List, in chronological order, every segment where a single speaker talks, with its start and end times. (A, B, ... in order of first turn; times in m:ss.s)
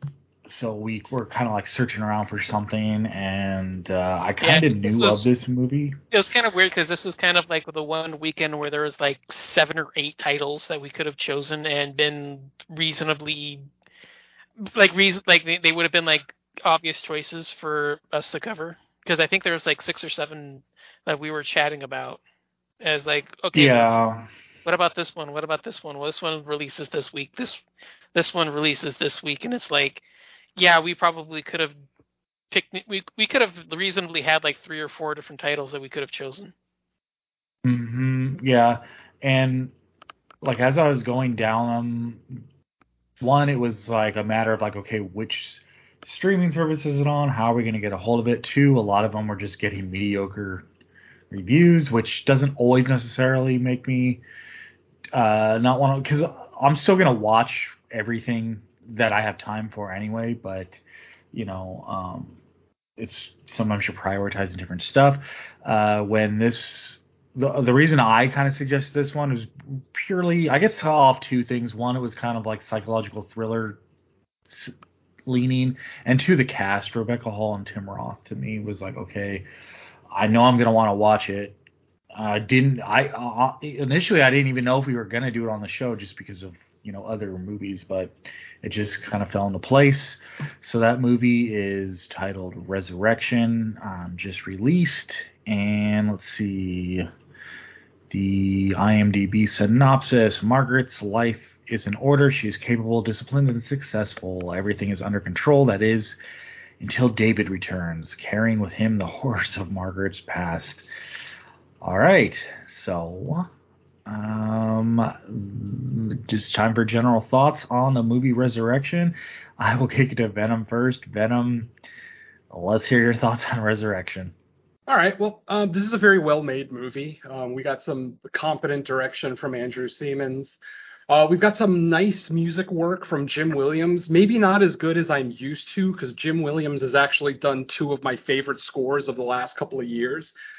0:00.4-0:06.0 A
0:04.4-0:05.3 B
0:06.1-0:13.6 B
0:14.6-0:22.2 B
0:22.8-0:24.0 B
0:23.5-0:24.3 A
0:24.6-0:27.6 B
0:28.1-0:30.0 B
0:30.6-0:31.8 B
0:32.5-0:36.5 B
0:37.6-0:39.7 A
0:40.4-0:42.2 A
0:43.2-0:50.7 A
0:51.3-0:54.2 A
0:55.1-1:00.8 A
1:01.3-1:02.4 A
1:03.0-1:13.8 A
1:14.5-1:14.7 A
1:15.2-1:19.5 A
1:20.1-1:21.6 A
1:22.1-1:37.1 A
1:38.1-1:46.2 A
1:46.8-1:50.8 A
1:51.8-1:53.5 A
1:54.0-2:01.7 A
2:02.5-2:04.3 A
2:04.9-2:10.6 C
2:11.1-2:20.3 C